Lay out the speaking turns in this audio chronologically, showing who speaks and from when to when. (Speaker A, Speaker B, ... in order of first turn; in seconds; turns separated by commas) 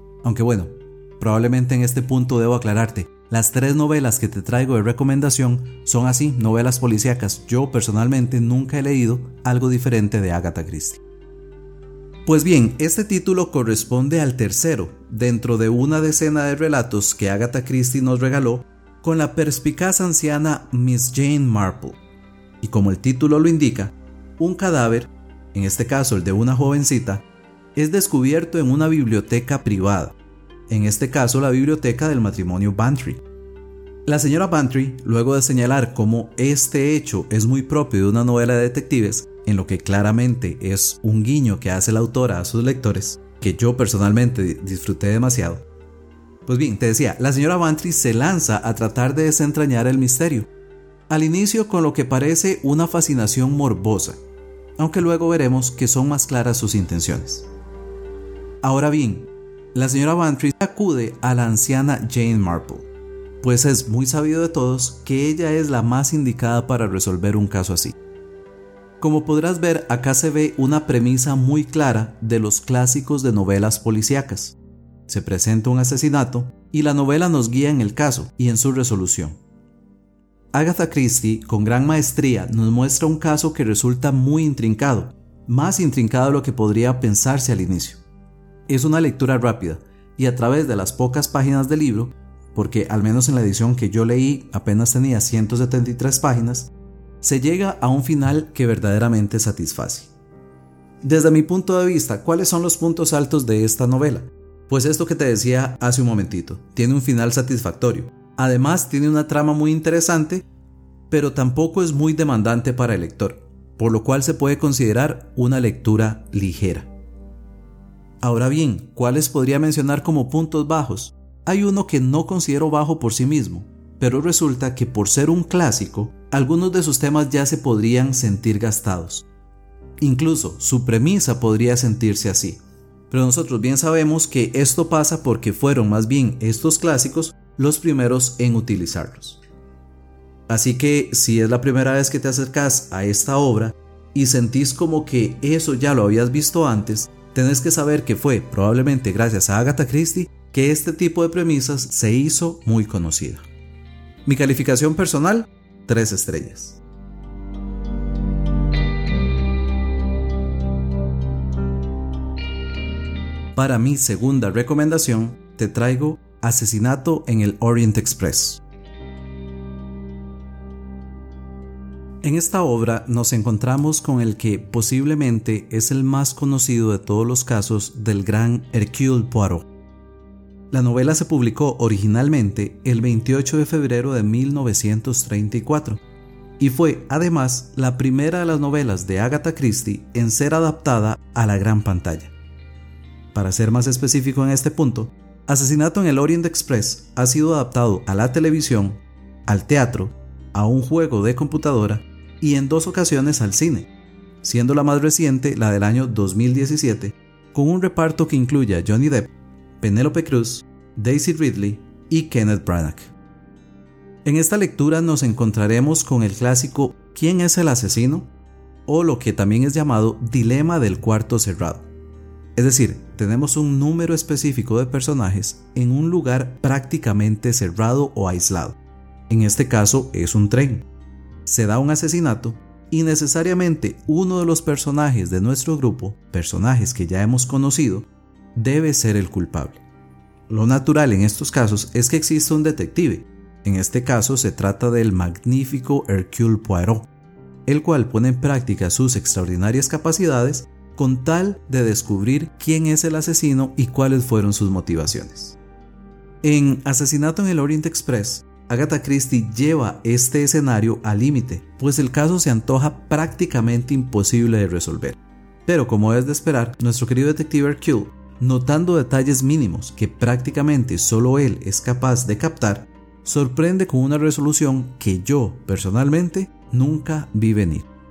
Speaker A: 0.2-11.0, Speaker A: 12.2-22.0, Speaker A: 22.6-27.2, Speaker A: 27.8-30.2, Speaker A: 30.7-33.2, Speaker A: 34.1-45.6, Speaker A: 46.5-50.5, Speaker A: 51.1-54.2, Speaker A: 54.8-57.5, Speaker A: 58.6-62.9, Speaker A: 63.4-68.0, Speaker A: 69.0-79.4, Speaker A: 80.5-88.0, Speaker A: 88.7-96.7, Speaker A: 97.2-100.1, Speaker A: 101.0-110.5, Speaker A: 111.1-116.9, Speaker A: 118.2-129.3, Speaker A: 130.0-139.4, Speaker A: 140.5-153.5, Speaker A: 154.2-156.8, Speaker A: 163.6-168.6, Speaker A: 172.2-179.7, Speaker A: 180.7-186.0, Speaker A: 186.6-192.3, Speaker A: 193.3-203.9, Speaker A: 204.4-209.3, Speaker A: 209.8-213.1, Speaker A: 214.2-218.3, Speaker A: 218.9-221.9, Speaker A: 222.6-228.8, Speaker A: 229.3-230.9, Speaker A: 231.4-239.8, Speaker A: 240.5-247.1, Speaker A: 247.7-255.6, Speaker A: 256.4-277.9